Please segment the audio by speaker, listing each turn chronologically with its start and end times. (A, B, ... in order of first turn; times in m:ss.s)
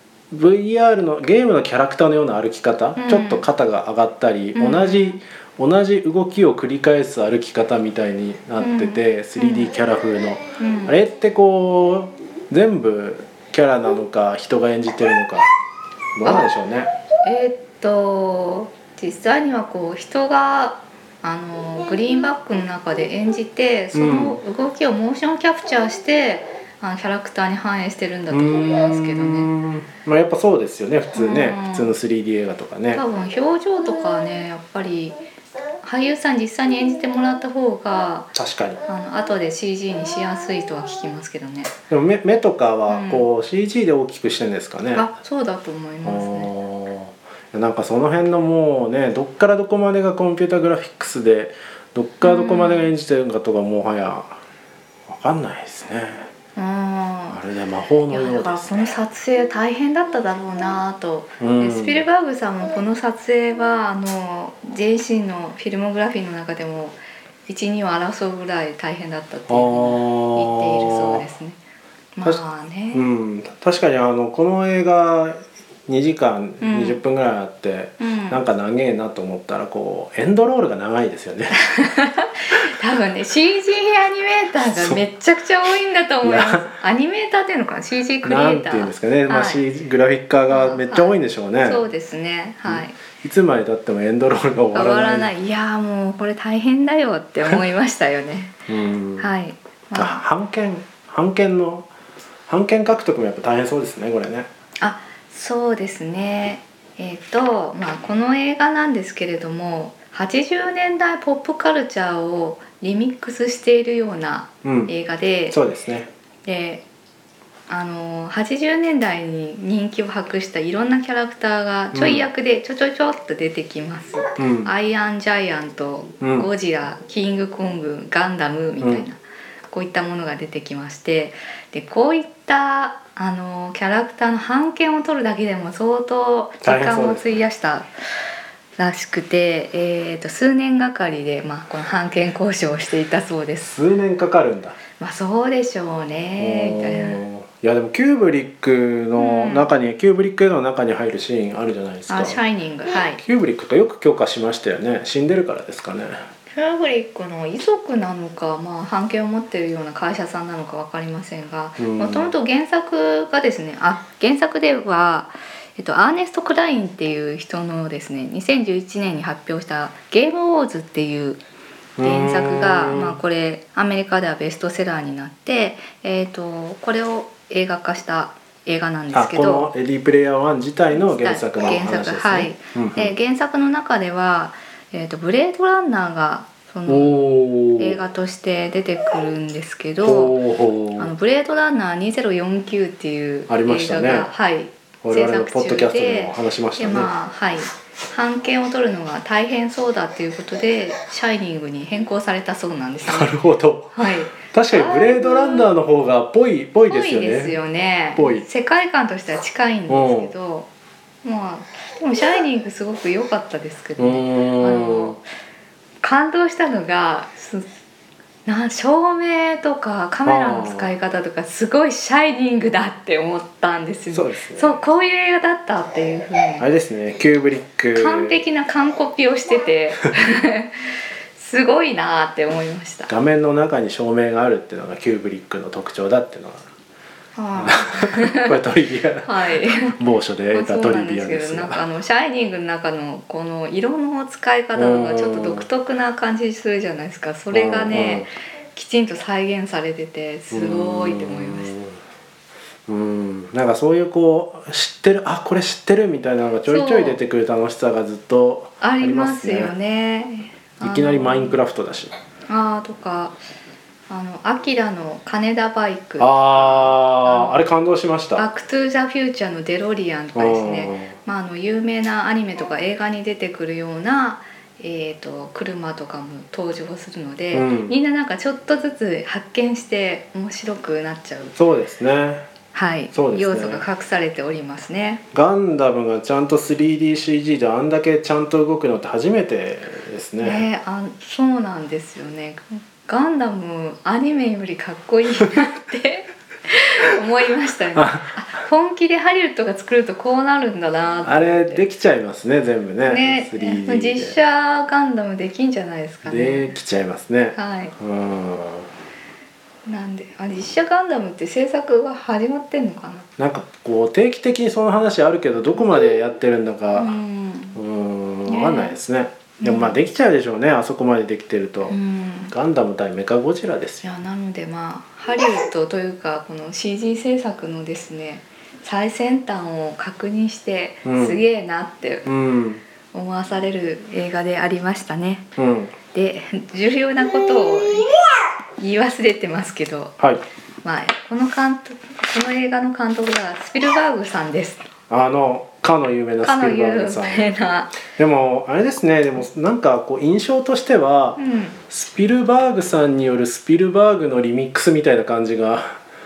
0:00.3-0:15.5 A
0:03.0-0:03.4 B
0:04.5-0:05.2 B
0:08.6-0:09.7 B
0:10.6-0:11.0 B
0:16.2-0:16.9 A
0:17.2-0:29.5 B
0:23.9-0:24.4 A
0:28.3-0:33.0 A
0:31.1-0:31.9 B
0:32.9-0:35.2 B
0:35.8-0:38.3 B
0:38.3-0:38.8 A
0:38.8-0:41.7 B
0:41.9-0:45.1 A
0:42.9-0:43.3 B
0:44.9-0:46.5 B
0:46.0-0:54.4 A
0:52.2-0:52.9 B
0:55.1-0:56.3 A
0:56.5-0:57.4 B
0:57.3-0:58.9 A
0:58.1-1:11.6 B
1:01.4-1:02.0 A
1:09.5-1:11.2 A
1:12.2-1:13.0 B
1:12.9-1:21.6 A
1:16.6-1:17.0 B
1:18.0-1:18.4 B
1:21.6-1:29.6 B
1:24.7-1:25.0 A
1:26.2-1:26.7 A
1:28.2-1:31.8 A
1:30.5-1:33.0 B
1:32.7-1:35.3 A
1:34.7-1:38.6 B
1:38.7-1:39.3 A
1:39.2-1:40.2 B
1:39.9-1:41.9 A
1:42.5-1:44.5 A
1:44.8-1:55.6 B
1:54.6-1:54.9 A
1:55.5-1:56.1 A
1:56.4-1:56.8 B
1:57.7-2:09.2 B
2:01.9-2:02.3 A
2:04.4-2:04.7 A
2:06.2-2:06.5 A
2:08.8-2:09.0 A
2:09.7-2:17.9 B
2:16.6-2:17.3 A
2:18.8-2:23.8 B
2:23.6-2:24.8 A
2:25.0-2:27.2 B
2:26.4-2:32.4 A
2:29.2-2:29.7 B
2:32.1-2:33.2 B
2:33.1-2:36.2 A
2:36.5-2:51.4 B
2:41.8-2:42.3 A
2:52.0-2:53.2 A
2:52.0-2:59.7 B
2:59.1-3:03.1 A
3:00.9-3:07.2 B
3:06.9-3:08.0 A
3:07.8-3:10.4 B
3:10.0-3:11.1 A
3:11.0-3:23.4 B
3:13.5-3:14.3 A
3:15.0-3:17.1 A
3:23.0-3:27.6 A
3:23.9-3:25.7 B
3:26.9-3:30.7 B
3:28.1-3:28.4 A
3:29.9-3:30.3 A
3:31.2-3:35.2 B
3:34.0-3:35.2 A
3:36.0-3:37.7 B
3:38.4-3:46.6 B
3:40.2-3:40.9 A
3:44.1-3:44.8 A
3:46.6-3:48.4 A
3:47.9-3:53.1 B
3:53.1-3:56.6 A
3:57.4-3:58.6 B
3:57.5-4:01.8 A
3:59.2-4:00.0 B
4:00.5-4:11.7 B
4:04.7-4:05.6 A
4:07.5-4:08.3 A
4:10.5-4:12.0 A
4:12.9-4:19.7 A
4:16.6-4:17.2 B
4:18.8-4:21.6 B
4:20.8-4:22.1 A
4:22.5-4:23.4 B
4:24.1-4:27.6 B
4:26.2-4:28.4 A
4:28.4-4:41.5 B
4:30.3-4:31.1 A
4:37.5-4:37.9 A
4:41.6-4:42.4 A
4:42.7-4:45.2 B
4:43.1-4:43.8 A
4:45.3-4:50.6 A
4:50.4-5:01.8 B
4:57.9-4:58.3 A
5:01.2-5:04.4 A
5:03.0-5:06.7 B
5:06.2-5:08.9 A
5:07.5-5:07.9 B
5:09.8-5:13.2 B
5:13.4-5:17.2 A
5:16.9-5:17.8 B
5:17.7-5:22.0 A
5:18.5-5:19.0 B
5:19.6-5:20.0 B
5:21.9-5:22.5 B
5:22.5-5:24.1 A
5:24.0-5:32.3 B
5:31.0-5:31.4 A
5:32.2-5:32.8 A
5:33.1-5:35.5 B
5:35.6-5:36.0 A
5:36.1-5:38.2 B
5:38.8-5:40.1 B
5:40.2-5:40.4 A
5:40.8-5:44.9 B
5:45.1-5:47.5 A
5:46.4-5:48.0 B
5:48.0-5:56.0 A
5:51.4-5:51.8 B